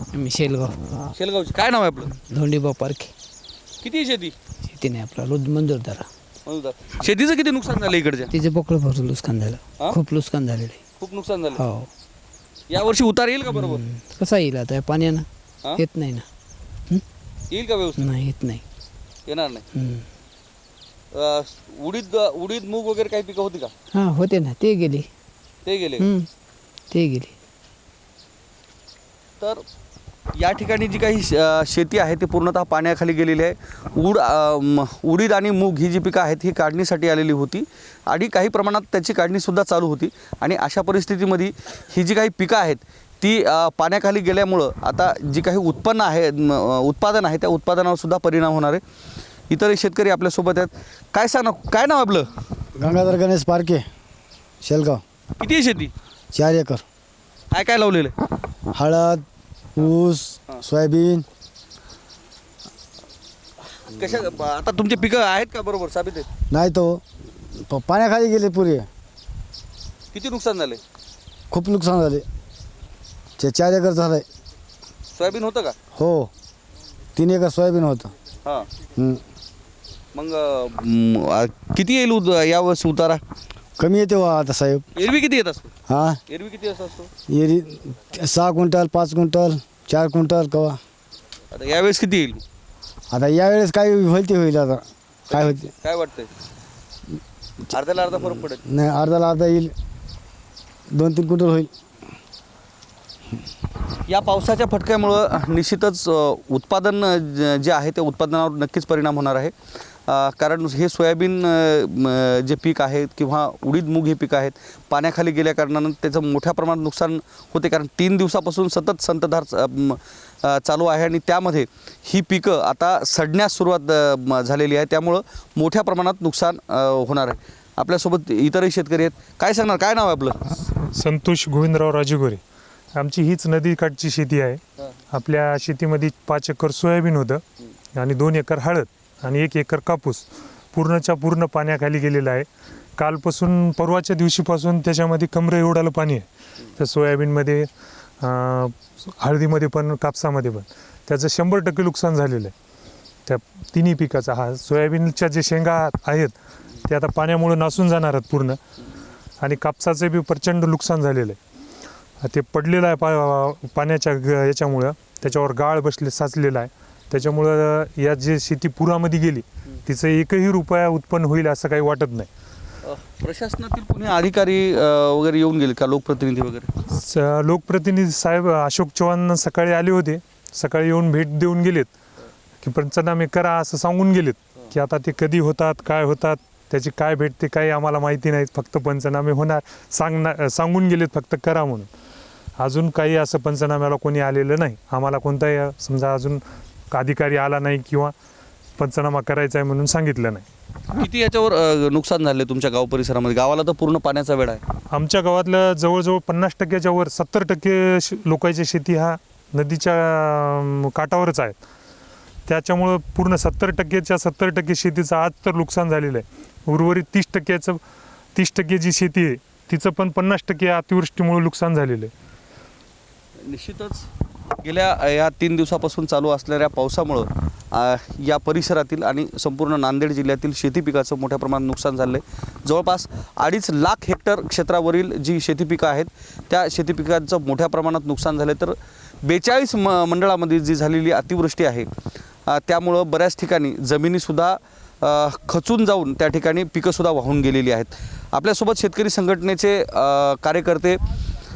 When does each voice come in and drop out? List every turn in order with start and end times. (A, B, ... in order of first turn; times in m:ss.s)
0:00.1-0:01.1 A
0:01.1-0:02.2 B
0:02.3-0:03.1 A
0:03.8-0:04.4 B
0:04.8-0:06.1 A
0:06.5-0:08.3 B
0:08.3-0:10.8 A
0:11.0-0:11.6 B
0:11.6-0:11.9 A
0:12.7-0:13.8 B
0:13.6-0:15.2 A
0:15.8-0:16.3 A
0:17.5-0:18.1 B
0:18.0-0:18.6 A
0:19.3-0:19.7 B
0:19.7-0:20.0 A
0:21.1-0:23.7 B
0:23.9-0:25.1 A
0:25.6-0:26.1 B
0:26.0-0:26.3 A
0:26.9-0:27.3 A
0:30.3-0:48.8 B
0:49.5-0:52.3 B
0:52.8-0:53.9 C
0:54.6-0:55.0 C
0:55.4-0:55.9 B
0:56.3-0:56.8 C
0:57.5-0:58.1 B
0:58.7-0:59.2 C
0:59.8-1:01.3 C
1:03.9-1:06.3 B
1:06.5-1:07.0 C
1:07.6-1:08.9 C
1:10.1-1:10.8 B
1:11.5-1:12.3 C
1:13.4-1:14.3 C
1:15.1-1:15.8 B
1:15.9-1:16.3 C
1:17.2-1:18.1 C
1:20.1-1:23.2 B
1:23.8-1:24.9 C
1:25.0-1:25.7 B
1:25.9-1:26.2 C
1:26.3-1:27.1 B
1:27.3-1:30.8 C
1:31.5-1:32.4 B
1:33.1-1:35.7 C
1:35.3-1:36.3 B
1:37.7-1:38.6 B
1:38.7-1:39.7 C
1:40.9-1:41.7 C
1:44.1-1:49.5 B
1:50.1-2:10.7 B
2:10.9-2:12.4 D
2:13.0-2:14.6 D
2:15.1-2:17.4 D
2:18.0-2:27.7 D
2:28.2-2:32.5 D
2:33.3-2:38.6 D
2:39.4-2:41.4 D
2:42.2-2:52.3 D
2:52.8-2:56.7 B
2:56.9-3:01.9 D
3:02.6-3:11.9 D
3:12.6-3:18.1 D
3:18.8-3:20.4 D
3:20.9-3:24.6 B
3:24.9-3:31.6 D
3:32.5-3:37.8 D
3:38.4-3:42.1 D
3:43.4-3:44.1 B
3:44.6-4:01.9 B
4:02.5-4:11.0 B